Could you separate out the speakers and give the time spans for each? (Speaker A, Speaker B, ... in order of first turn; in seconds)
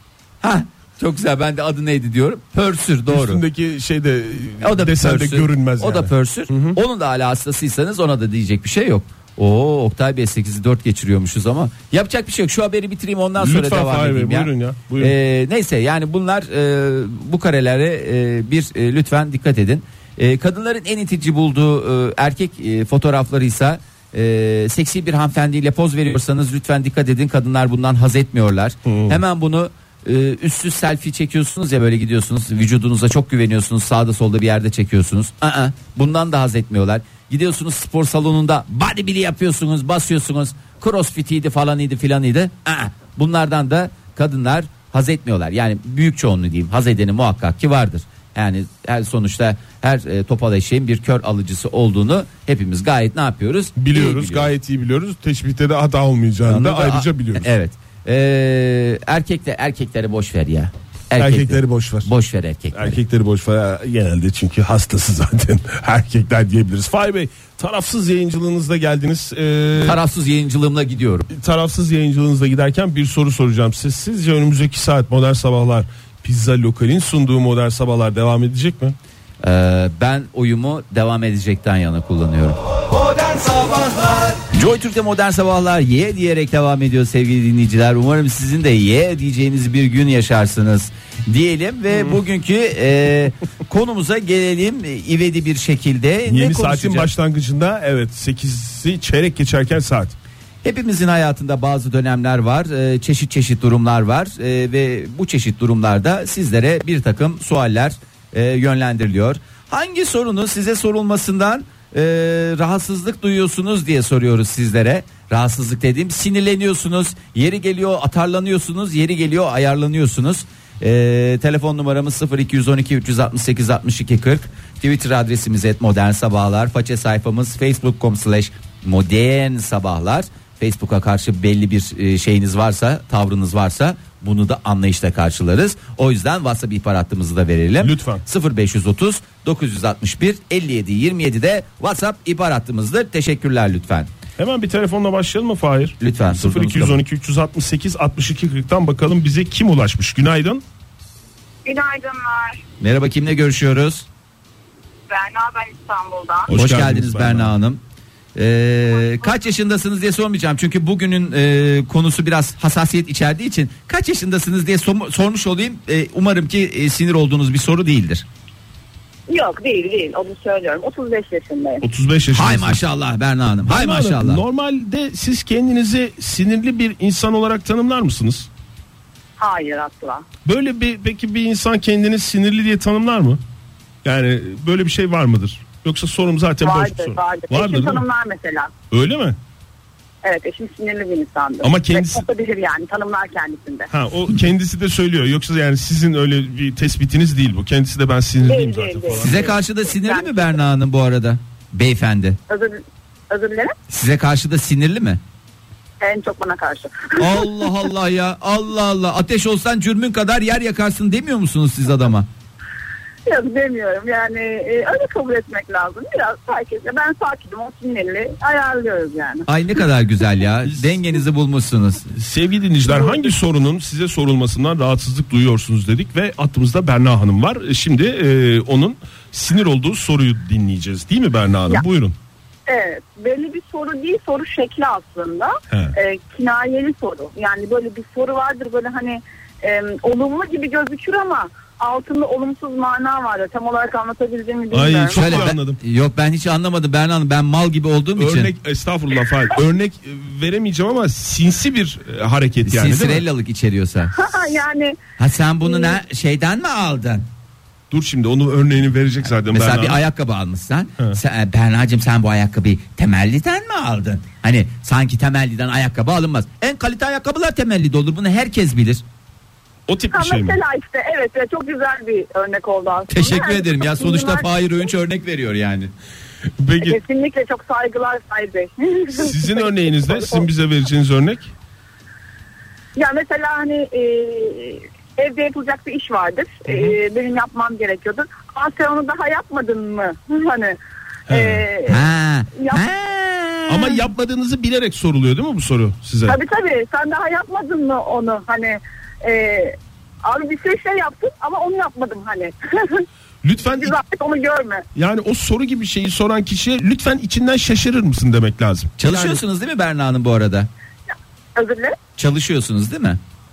Speaker A: 0.4-3.4, 4.6-54.5, 56.5-63.0, 69.8-71.3, 79.4-82.6, 83.3-97.1, 100.6-144.1, 146.0-147.0, 152.8-154.1, 156.5-157.8, 158.3-168.2, 172.3-174.4, 199.1-202.4, 203.9-205.2, 207.2-212.3, 219.5-222.1, 245.1-248.5, 252.7-254.1, 255.2-257.2, 259.5-269.0, 273.1-275.9, 291.9-294.0, 309.0-310.7, 312.2-313.2
Speaker B: 3.1-6.8, 13.4-15.1, 28.9-29.2, 53.8-57.5, 61.1-62.1, 62.7-70.0, 71.3-79.0, 91.9-92.2, 96.3-100.2, 137.8-138.2, 144.4-150.6, 156.5-157.5, 171.8-172.8, 173.7-178.5, 180.4-183.4, 184.0-188.0, 188.9-189.4, 191.6-192.2, 193.9-199.6, 222.1-232.2, 244.7-245.8, 248.2-253.2, 257.9-260.0, 269.9-270.6, 276.6-277.0, 279.1-281.5, 286.7-287.0, 291.3-291.6, 293.7-296.4, 303.4-304.0, 304.9-309.4
Speaker C: 151.7-152.6, 155.1-156.5, 169.3-171.8, 179.4-180.2, 186.6-188.7, 190.2-193.9, 198.5-200.6, 202.5-203.8, 206.0-207.7, 213.2-219.5, 232.7-245.5, 254.1-255.0, 255.6-256.0, 270.1-274.5, 276.8-280.4, 283.0-290.8, 291.3-292.0, 292.6-292.9, 296.3-303.1, 303.8-304.9, 311.6-312.0